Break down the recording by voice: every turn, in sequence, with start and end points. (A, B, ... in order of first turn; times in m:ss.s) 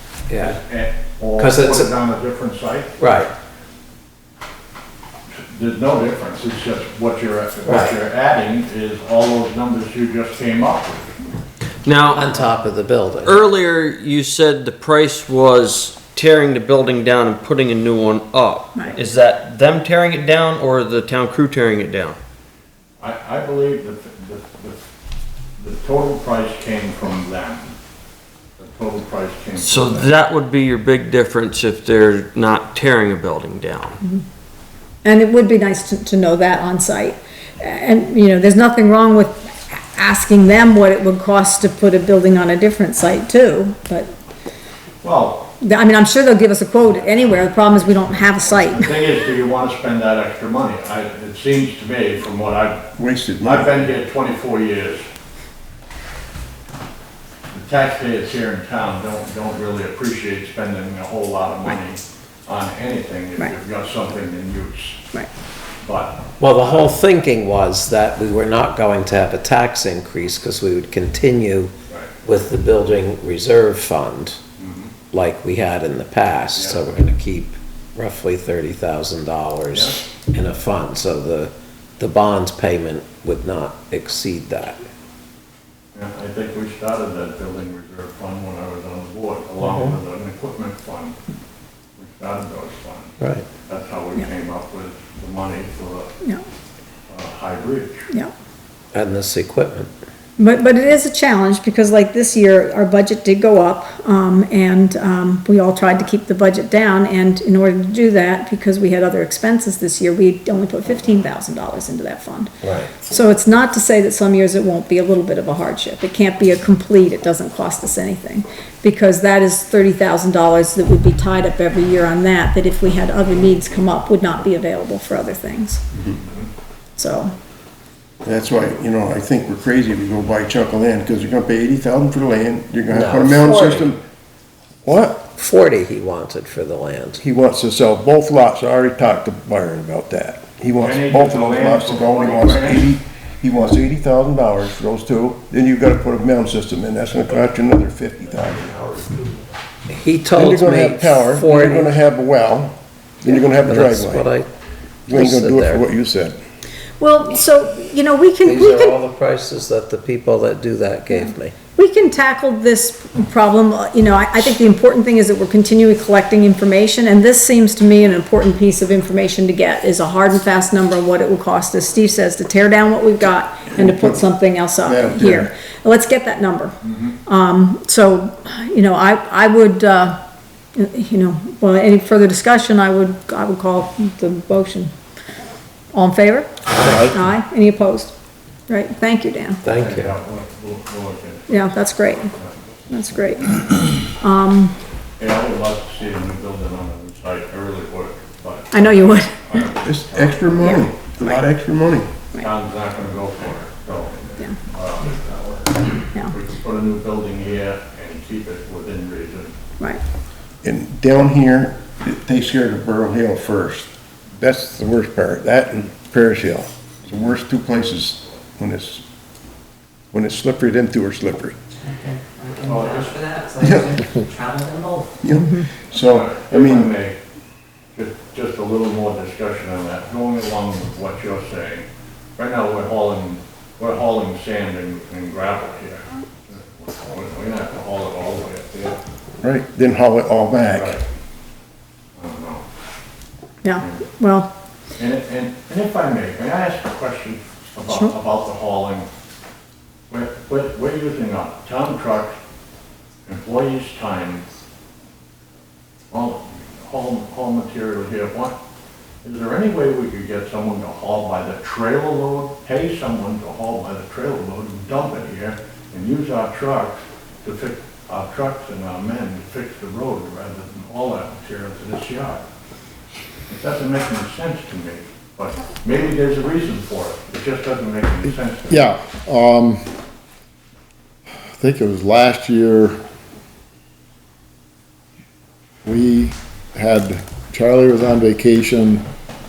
0:00.3-0:00.6 A
0:00.4-0:03.0 B
0:01.4-0:01.9 A
0:03.0-0:03.3 A
0:05.5-0:11.2 B
0:07.6-0:08.0 A
0:11.8-0:12.3 C
0:12.1-0:13.4 A
0:13.2-0:22.2 C
0:23.0-0:24.8 B
0:25.6-0:27.7 B
0:28.6-0:30.1 B
0:29.6-0:34.0 C
0:35.0-0:44.1 D
0:45.0-0:45.5 B
0:45.6-0:49.0 D
0:48.4-0:52.8 B
0:53.0-0:53.8 E
0:53.4-0:55.0 B
0:57.5-1:05.0 B
1:05.8-1:06.2 B
1:06.4-1:11.7 A
1:12.2-1:14.4 A
1:14.6-1:14.9 B
1:15.1-1:24.8 A
1:16.5-1:16.8 B
1:19.7-1:20.0 B
1:25.9-1:31.1 B
1:29.6-1:29.9 A
1:32.0-1:33.1 B
1:33.2-1:33.4 A
1:33.6-1:36.1 B
1:37.1-1:38.1 B
1:38.9-1:39.9 A
1:40.4-2:05.8 D
1:52.6-1:52.9 A
2:07.0-2:07.3 D
2:08.2-2:14.0 E
2:12.9-2:13.9 A
2:14.8-2:15.2 E
2:15.4-2:17.2 A
2:17.2-2:28.7 E
2:20.8-2:23.0 B
2:28.5-2:29.4 B
2:29.9-2:31.9 A
2:30.3-2:34.3 E
2:33.3-2:34.5 A
2:35.1-2:35.8 A
2:35.1-2:36.4 E
2:37.0-2:39.0 D
2:38.4-2:41.5 A
2:41.1-2:56.7 D
2:53.8-2:54.2 E
2:54.8-2:55.5 E
2:56.8-2:57.1 B
2:57.2-3:00.2 D
3:00.7-3:04.9 D
3:05.9-3:08.1 D
3:06.7-3:07.2 A
3:08.7-3:09.6 D
3:09.6-3:10.1 A
3:09.7-3:11.6 B
3:11.5-3:12.3 D
3:12.9-3:14.8 D
3:15.2-3:21.0 B
3:18.7-3:19.6 D
3:19.8-3:22.1 E
3:20.6-3:21.4 D
3:22.4-3:25.6 B
3:26.3-3:29.5 B
3:30.6-3:39.0 E
3:40.1-3:41.6 E
3:41.8-3:45.1 F
3:42.6-3:43.4 B
3:43.6-3:43.9 E
3:45.2-3:46.9 E
3:45.3-3:45.7 D
3:45.9-3:47.2 B
3:47.9-3:51.8 B
3:52.4-3:59.0 B
3:59.4-4:01.0 E
4:00.7-4:01.0 B
4:02.2-4:02.6 B
4:03.6-4:04.5 D
4:03.8-4:04.0 B
4:05.0-4:09.1 B
4:10.1-4:12.4 B
4:13.2-4:14.4 B
4:16.1-4:18.5 B
4:19.2-4:32.4 B
4:33.5-4:38.9 B
4:38.7-4:39.8 G
4:41.6-4:42.9 G
4:45.8-4:49.0 G